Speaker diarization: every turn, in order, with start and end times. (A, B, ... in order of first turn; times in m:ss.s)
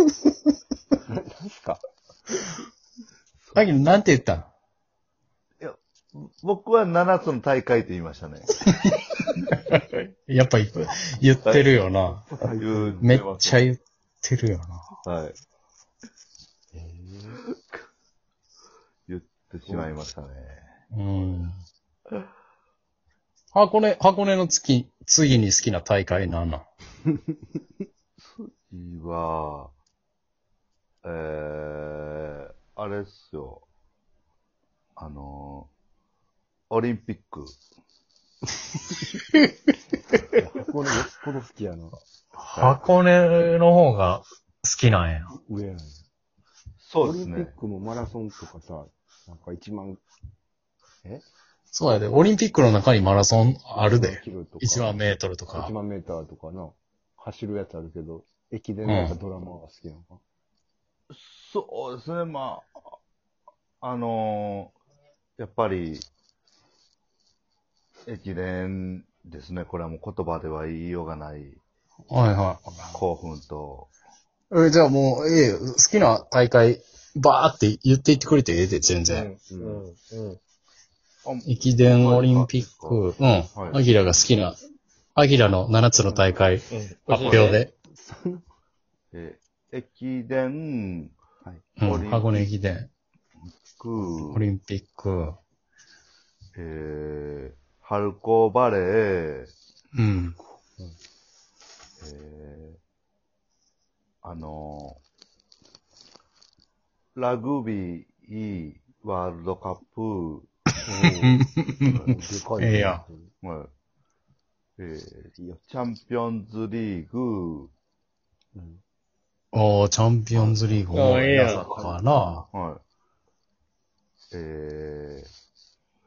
0:01.1-0:01.8 A
0:03.4-0:03.7 B
0:03.5-0:04.5 C
0:05.6-0:08.5 B
0:08.6-0:12.3 C
0:11.4-0:11.8 B
0:12.3-0:13.2 A
0:12.6-0:13.7 B
0:13.0-0:14.8 C
0:15.0-0:15.4 B
0:16.7-0:17.4 A
0:19.1-0:20.7 B
0:19.7-0:19.9 A
0:20.9-0:21.6 C
0:23.5-0:26.6 C
0:28.2-0:29.7 B
0:31.0-0:33.6 B
0:35.0-0:35.7 B
0:36.7-0:37.6 B
0:40.4-0:42.0 A
0:42.4-0:45.3 C
0:42.5-0:42.8 B
0:45.4-0:46.0 A
0:46.8-0:47.5 B
0:47.0-0:50.0 A
0:51.7-0:55.7 C
0:53.8-1:00.2 A
0:58.8-0:59.2 C
1:01.1-1:02.7 B
1:03.8-1:04.7 B
1:05.4-1:06.0 B
1:08.1-1:11.6 B
1:12.1-1:12.9 C
1:12.9-1:13.9 B
1:14.5-1:19.3 C
1:19.1-1:20.4 D
1:19.5-1:19.8 A
1:21.2-1:23.8 B
1:21.4-1:24.6 C
1:25.1-1:27.7 C
1:26.7-1:27.6 D
1:27.2-1:27.6 B
1:27.9-1:28.4 A
1:29.1-1:31.1 B
1:31.8-1:32.9 C
1:31.8-1:32.5 B
1:33.7-1:34.4 B
1:34.3-1:35.4 C
1:36.6-1:39.5 B
1:39.9-1:40.4 C
1:42.0-1:42.8 B
1:44.2-1:45.0 B
1:47.2-1:50.5 B
1:50.8-1:51.4 A
1:51.2-1:53.0 C
1:52.0-1:53.3 A
1:53.4-1:53.7 B
1:54.8-1:57.7 B
1:58.5-1:58.8 A
1:59.5-2:02.5 C
2:00.3-2:01.2 B
2:00.9-2:01.6 D
2:01.5-2:02.0 A
2:02.5-2:02.8 B
2:04.3-2:05.3 B